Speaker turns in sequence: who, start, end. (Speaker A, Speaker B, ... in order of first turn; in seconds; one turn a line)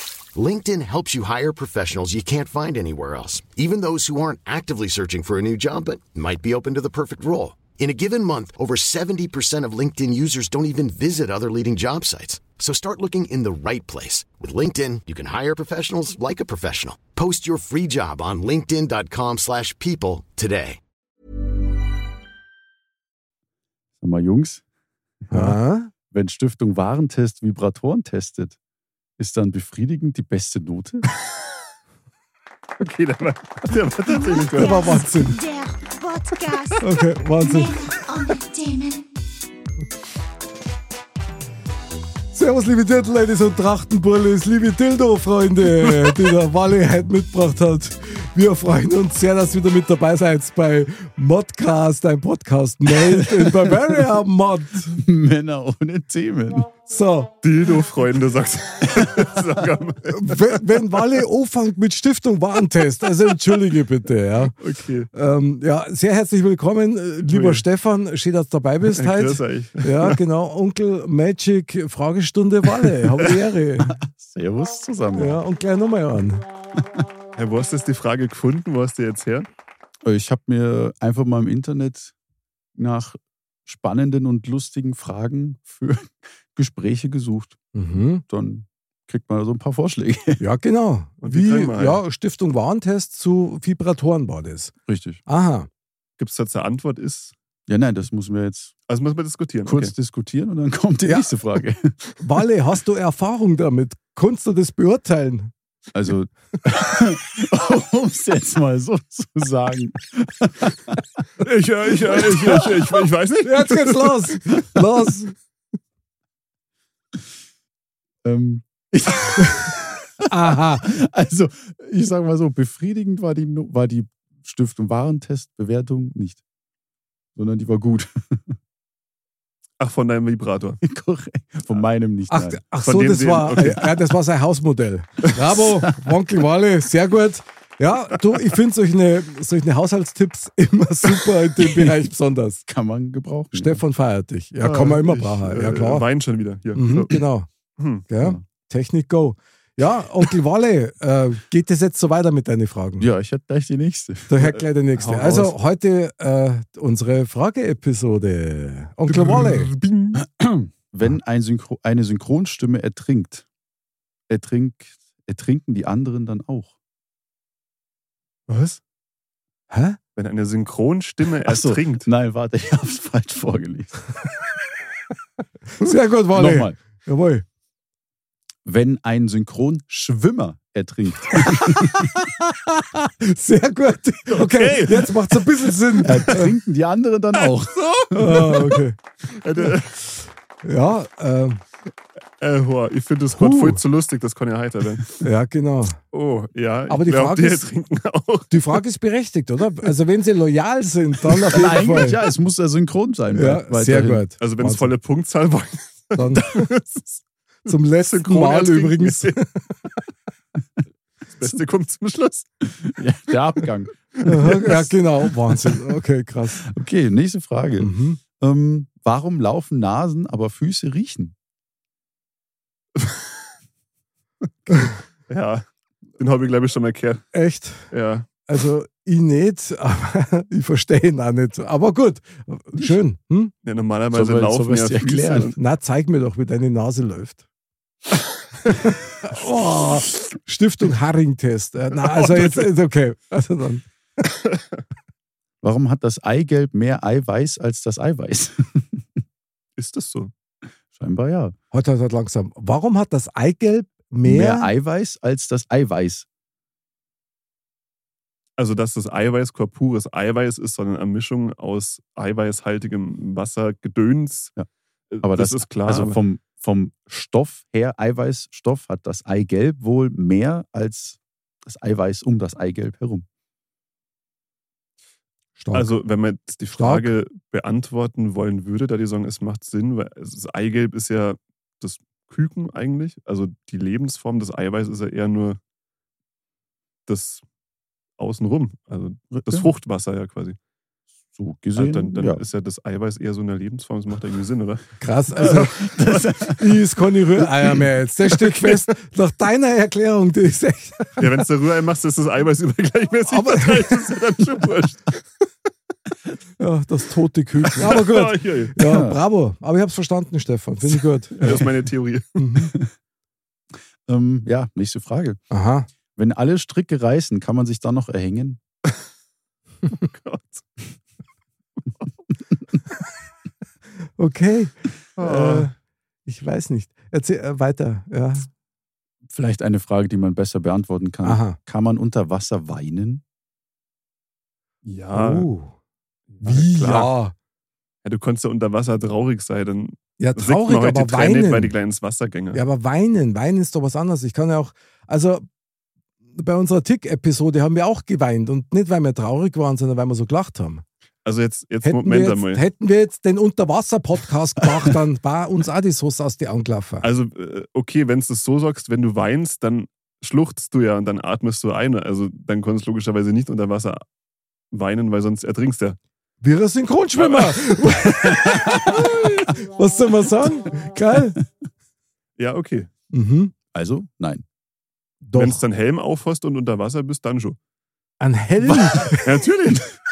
Speaker A: 0.3-20.8
Speaker B: 24.0-24.6
Speaker B: 25.3-25.6
Speaker C: 25.3-25.9
Speaker B: 26.1-28.6
Speaker B: 29.2-31.0
Speaker D: 32.8-35.0
Speaker E: 34.1-39.1
Speaker C: 34.5-35.4
Speaker C: 36.8-37.8
Speaker C: 42.3-55.0
Speaker B: 53.1-53.8
Speaker B: 54.9-56.7
Speaker C: 56.9-57.3
Speaker D: 57.4-60.6
Speaker C: 60.1-64.5
Speaker D: 64.6-65.1
Speaker C: 65.1-73.9
Speaker D: 67.3-67.6
Speaker D: 68.9-70.2
Speaker B: 73.8-75.4
Speaker C: 75.2-76.5
Speaker D: 77.3-79.5
Speaker B: 80.0-82.1
Speaker B: 82.7-87.6
Speaker C: 87.7-88.2
Speaker B: 88.2-90.4
Speaker C: 90.4-94.7
Speaker D: 91.2-92.0
Speaker B: 94.9-95.2
Speaker C: 95.2-95.7
Speaker D: 96.2-97.3
Speaker B: 97.7-98.7
Speaker D: 98.9-99.9
Speaker B: 99.7-102.1
Speaker C: 102.2-105.5
Speaker B: 105.9-111.0
Speaker D: 111.4-114.4
Speaker B: 112.1-113.0
Speaker C: 113.4-115.3
Speaker B: 118.2-126.4
Speaker C: 120.3-120.9
Speaker B: 127.3-128.6
Speaker D: 129.8-130.8
Speaker B: 130.8-132.6
Speaker C: 132.3-142.6
Speaker D: 132.8-134.0
Speaker B: 142.7-143.8
Speaker C: 143.5-146.0
Speaker D: 144.6-147.2
Speaker C: 146.7-147.5
Speaker D: 147.8-148.1
Speaker C: 148.1-153.1
Speaker B: 153.0-154.6
Speaker C: 154.3-159.7
Speaker D: 155.0-155.5
Speaker D: 159.1-160.2
Speaker B: 160.4-163.4
Speaker B: 164.3-166.7
Speaker D: 168.5-168.8
Speaker C: 169.7-170.0
Speaker D: 170.2-172.1
Speaker B: 171.4-174.0
Speaker C: 175.8-177.4
Speaker B: 176.3-176.8
Speaker B: 178.6-182.0
Speaker C: 181.3-186.5
Speaker D: 184.3-185.4
Speaker D: 186.0-186.4
Speaker B: 186.0-188.6
Speaker D: 187.3-190.0
Speaker C: 188.1-189.0
Speaker C: 190.6-191.6
Speaker D: 192.4-195.2
Speaker C: 193.3-193.8
Speaker C: 195.2-196.0
Speaker D: 196.1-198.8
Speaker C: 196.9-197.7
Speaker C: 198.5-202.2
Speaker B: 201.5-204.2
Speaker C: 203.3-204.9
Speaker D: 204.4-209.4
Speaker C: 206.1-206.7
Speaker C: 207.7-209.6
Speaker D: 211.3-212.5
Speaker B: 212.8-214.7
Speaker D: 214.2-214.8
Speaker C: 214.2-216.6
Speaker B: 216.6-221.3
Speaker C: 217.8-218.2
Speaker D: 224.7-225.6
Speaker D: 226.2-227.3
Speaker C: 227.3-227.9
Speaker D: 227.9-228.3
Speaker C: 228.5-233.5
Speaker D: 233.6-235.6
Speaker B: 234.1-235.5
Speaker C: 235.6-237.4
Speaker C: 238.7-243.8
Speaker D: 241.9-242.7
Speaker B: 245.6-249.2
Speaker D: 249.8-250.3
Speaker B: 250.9-251.5
Speaker C: 251.7-254.7
Speaker B: 254.2-256.2
Speaker D: 258.6-264.5
Speaker D: 265.1-266.2
Speaker B: 265.2-273.2
Speaker C: 275.6-275.9
Speaker D: 275.7-285.6
Speaker C: 276.8-277.1
Speaker D: 287.1-287.4
Speaker D: 288.2-290.6
Speaker B: 289.3-289.7
Speaker B: 291.3-292.4
Speaker D: 291.8-294.8
Speaker C: 295.0-295.9
Speaker D: 295.4-296.3
Speaker B: 295.6-296.6
Speaker C: 296.5-301.4
Speaker D: 301.2-305.2
Speaker C: 303.3-304.0
Speaker C: 306.6-311.6
Speaker D: 307.6-308.8
Speaker B: 308.8-309.2
Speaker D: 311.4-312.5
Speaker C: 312.4-312.7
Speaker B: 314.1-315.4
Speaker C: 315.5-315.9
Speaker B: 316.1-318.6
Speaker D: 319.9-320.6
Speaker C: 324.2-325.7
Speaker D: 325.2-325.7
Speaker C: 326.2-328.5
Speaker B: 329.3-333.2
Speaker C: 331.2-331.6
Speaker D: 334.8-335.5
Speaker C: 335.1-335.7
Speaker D: 336.3-337.1
Speaker C: 336.4-337.3
Speaker D: 338.0-342.6
Speaker C: 340.2-341.7
Speaker C: 342.5-345.4
Speaker C: 346.3-350.8
Speaker D: 351.2-352.6
Speaker C: 351.8-357.1
Speaker D: 357.0-364.0
Speaker D: 364.7-366.0
Speaker C: 366.4-371.4
Speaker D: 367.1-368.2
Speaker D: 368.8-369.4
Speaker D: 372.4-372.9
Speaker C: 373.1-373.5
Speaker B: 373.7-374.4
Speaker C: 375.2-375.6
Speaker D: 375.3-377.6
Speaker C: 378.2-379.4
Speaker D: 379.2-379.9